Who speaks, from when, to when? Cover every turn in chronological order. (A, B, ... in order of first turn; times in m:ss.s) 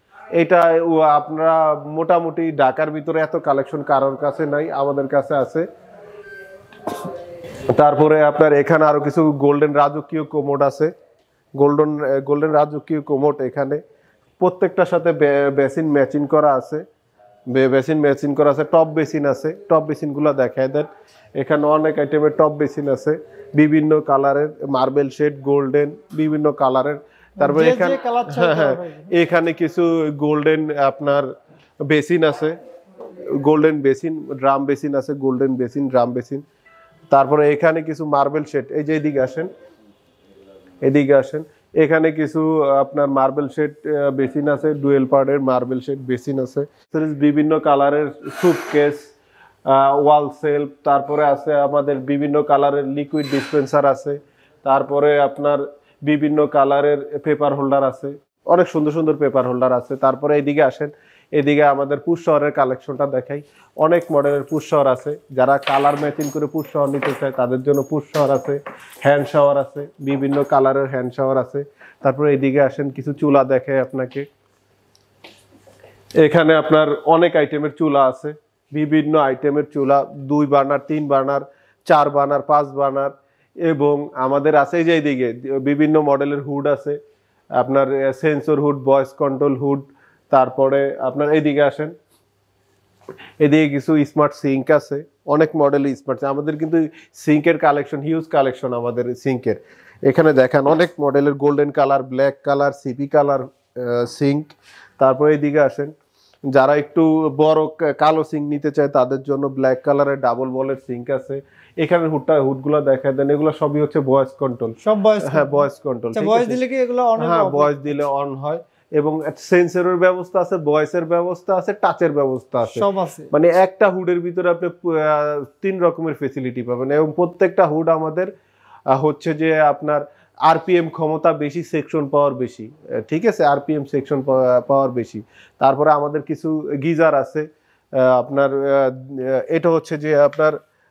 0:00.4-0:05.6 A
0:07.7-0:10.9 A
0:11.6-0:13.8 A
0:14.4-0:16.8 A
0:17.5-0:31.3 A
0:27.4-0:29.1 B
0:31.8-0:32.6 A
0:33.4-0:36.4 A
0:37.1-0:39.5 A
0:40.8-0:49.1 A
0:49.6-1:14.2 A
1:16.2-1:27.0 A
1:27.6-1:32.0 A
1:33.4-1:45.9 A
1:46.5-1:56.6 A
1:54.8-1:57.8 B
1:57.2-2:08.3 A
2:02.7-2:03.3 B
2:08.9-2:17.5 A
2:18.0-2:20.6 A